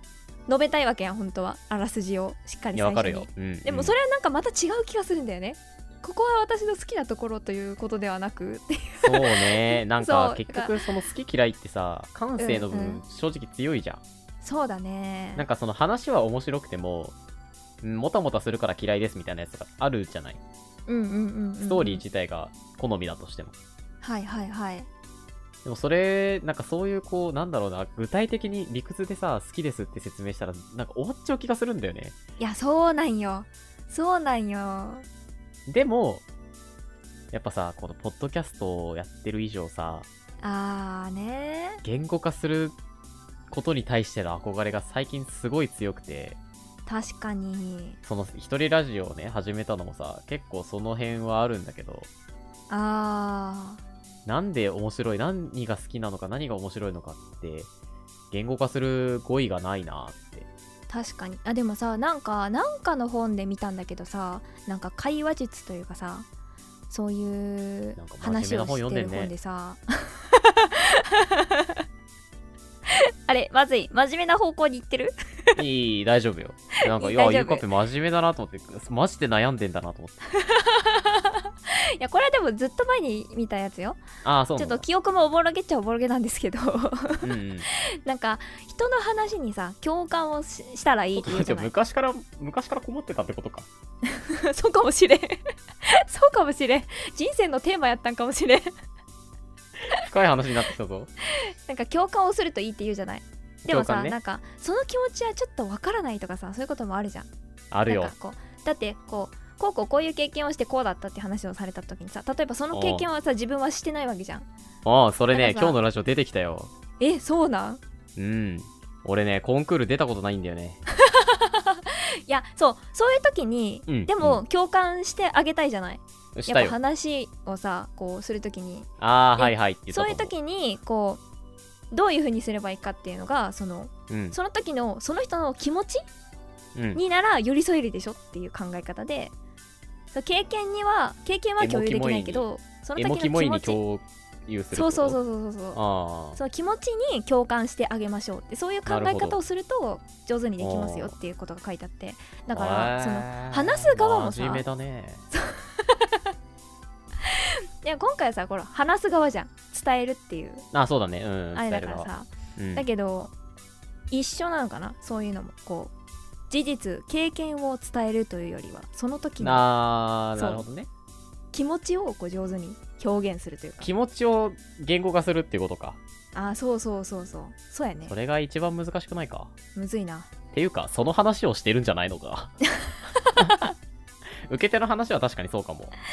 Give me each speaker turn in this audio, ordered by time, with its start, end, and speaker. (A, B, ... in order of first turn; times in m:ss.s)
0:00.5-0:10.8 A
0:02.8-0:03.9 B
0:09.0-0:14.0 B
0:12.4-0:13.0 A
0:14.4-0:15.4 A
0:15.4-0:17.2 B
0:17.8-0:20.4 B
0:20.9-0:22.0 A
0:21.6-0:23.5 B
0:24.0-0:24.9 A
0:25.6-0:32.2 B
0:32.4-0:35.0 A
0:35.7-0:36.2 B
0:37.3-0:40.1 B
0:40.4-0:41.8 A
0:41.8-0:42.8 B
0:43.5-0:46.4 B
0:46.9-0:48.0 A
0:48.0-0:52.1 B
0:52.7-0:53.8 A
0:54.3-0:57.7 B
0:58.3-1:00.5 B
1:00.9-1:06.3 A
1:06.9-1:11.8 A
1:08.0-1:09.3 B
1:12.9-1:15.6 A
1:15.6-1:20.2 B
1:16.8-1:17.7 A
1:20.3-1:24.0 A
1:24.2-1:24.8 B
1:24.6-1:31.7 A
1:27.2-1:27.7 B
1:31.2-1:33.7 B
1:34.1-1:38.7 A
1:39.9-1:41.1 B
1:41.4-1:47.3 A
1:43.6-1:44.2 B
1:47.7-1:48.1 B
1:47.9-1:54.5 A
1:52.7-1:53.1 B
1:54.8-1:56.7 B
1:55.3-1:55.8 A
1:57.0-1:57.8 A
1:58.2-2:00.8 B
2:01.0-2:11.2 A
2:03.9-2:04.4 B
2:06.4-2:06.8 B
2:09.0-2:10.3 B
2:11.9-2:16.0 A
2:14.1-2:14.4 B
2:16.8-2:17.0 B
2:16.9-2:19.3 A
2:20.1-2:23.8 A
2:21.6-2:25.2 B
2:24.7-2:25.8 A
2:25.7-2:26.4 B
2:26.4-2:34.6 A
2:28.9-2:29.4 B
2:30.6-2:31.2 B
2:32.5-2:35.2 B
2:35.3-2:36.2 A
2:37.2-2:40.7 A
2:40.7-2:42.8 B
2:41.5-2:43.3 A
2:44.1-2:45.9 A
2:46.5-2:49.7 A
2:49.4-2:50.9 B
2:50.4-2:50.6 A
2:51.5-2:53.9 A
2:53.8-2:56.0 B
2:56.4-2:58.1 A
2:58.1-2:59.5 B
2:59.8-3:00.3 A
3:00.5-3:02.5 B
3:02.8-3:03.6 A
3:03.4-3:03.7 B
3:04.5-3:05.9 B